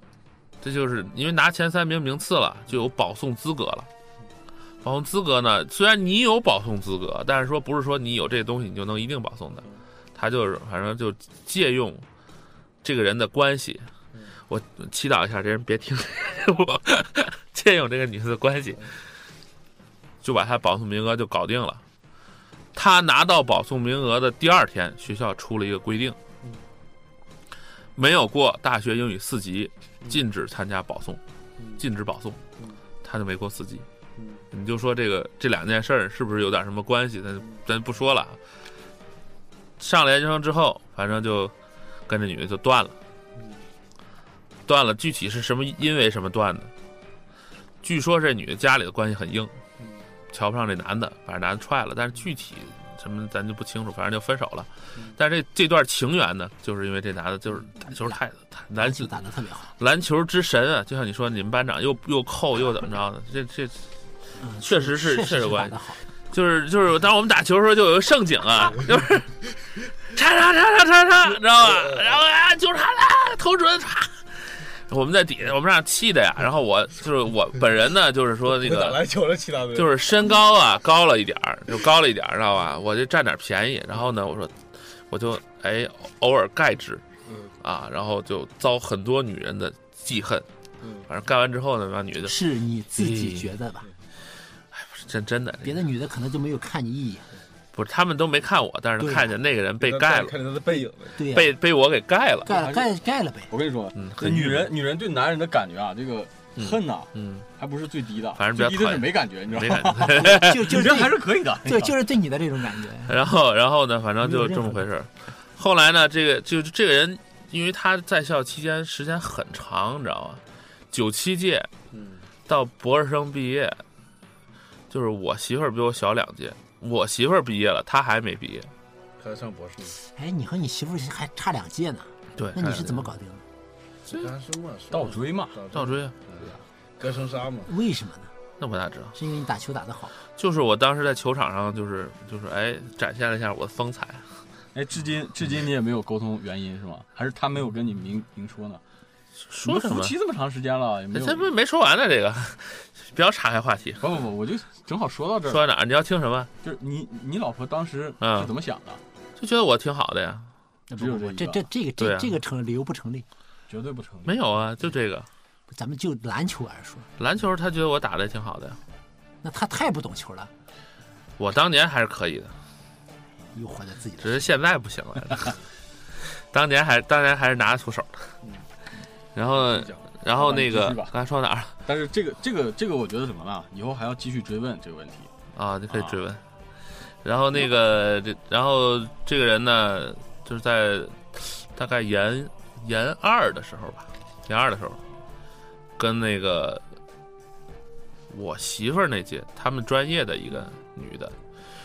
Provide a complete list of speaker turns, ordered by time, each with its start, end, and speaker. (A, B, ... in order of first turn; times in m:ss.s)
0:00.6-0:03.9 A
0:04.8-0:12.0 A
0:12.8-0:13.9 A
0:14.5-0:19.0 A
0:20.2-0:21.8 A
0:22.7-0:26.2 A
0:28.0-0:31.2 A
0:31.8-0:32.4 A
0:33.0-0:33.8 A
0:34.2-0:34.4 B
0:34.5-0:38.4 A
0:39.8-0:41.5 A
0:42.1-0:43.0 A
0:44.7-0:46.7 A
0:47.8-0:49.5 A
0:50.3-0:59.2 A
0:57.9-0:58.2 C
0:58.8-0:59.7 C
0:59.8-1:03.9 A
1:04.4-1:06.0 C
1:04.6-1:09.5 A
1:10.0-1:19.0 A
1:11.6-1:12.2 B
1:18.5-1:19.9 B
1:19.7-1:27.0 A
1:27.6-1:30.5 A
1:30.8-1:31.1 B
1:31.1-1:32.4 A
1:32.2-1:33.9 C
1:33.0-1:33.5 A
1:34.7-1:35.8 A
1:35.6-1:37.3 C
1:37.7-1:40.3 A
1:39.0-1:39.3 C
1:39.8-1:41.2 B
1:41.2-1:41.5 C
1:41.2-1:42.5 A
1:42.4-1:43.5 C
1:42.5-1:42.9 D
1:43.5-1:52.0 D
1:43.9-1:44.7 A
1:46.6-1:47.4 A
1:48.4-1:50.7 A
1:50.2-1:53.2 C
1:53.1-2:01.7 A
1:54.2-1:54.8 C
2:01.9-2:02.3 B
2:02.5-2:03.8 A
2:04.9-2:08.7 A
2:09.2-2:10.0 B
2:10.0-2:13.4 C
2:12.4-2:13.1 A
2:14.1-2:17.7 B
2:14.9-2:15.6 D
2:15.7-2:16.1 A
2:17.7-2:18.3 C
2:18.6-2:19.1 A
2:19.1-2:20.1 C
2:20.3-2:24.3 A
2:24.7-2:28.8 D
2:29.5-2:30.1 A
2:29.6-2:31.5 D
2:31.1-2:34.2 A
2:34.0-2:35.6 D
2:35.4-2:36.5 A
2:36.6-2:39.0 D
2:38.2-2:38.5 A
2:39.4-2:40.5 A
2:40.9-2:43.2 C
2:41.0-2:41.6 D
2:42.0-2:42.4 A
2:43.7-2:44.4 D
2:44.2-2:45.3 A
2:45.7-2:47.1 C
2:47.2-2:48.8 A
2:49.4-2:50.5 C
2:51.4-2:52.5 A
2:53.5-2:54.5 C
2:54.2-2:55.6 A
2:56.2-2:58.3 A
2:59.3-3:01.8 A
2:59.7-3:00.0 B
3:00.3-3:01.1 D
3:01.8-3:05.3 D
3:05.5-3:06.4 A
3:05.9-3:06.2 D
3:07.2-3:15.0 A
3:16.0-3:16.8 A
3:18.3-3:21.4 A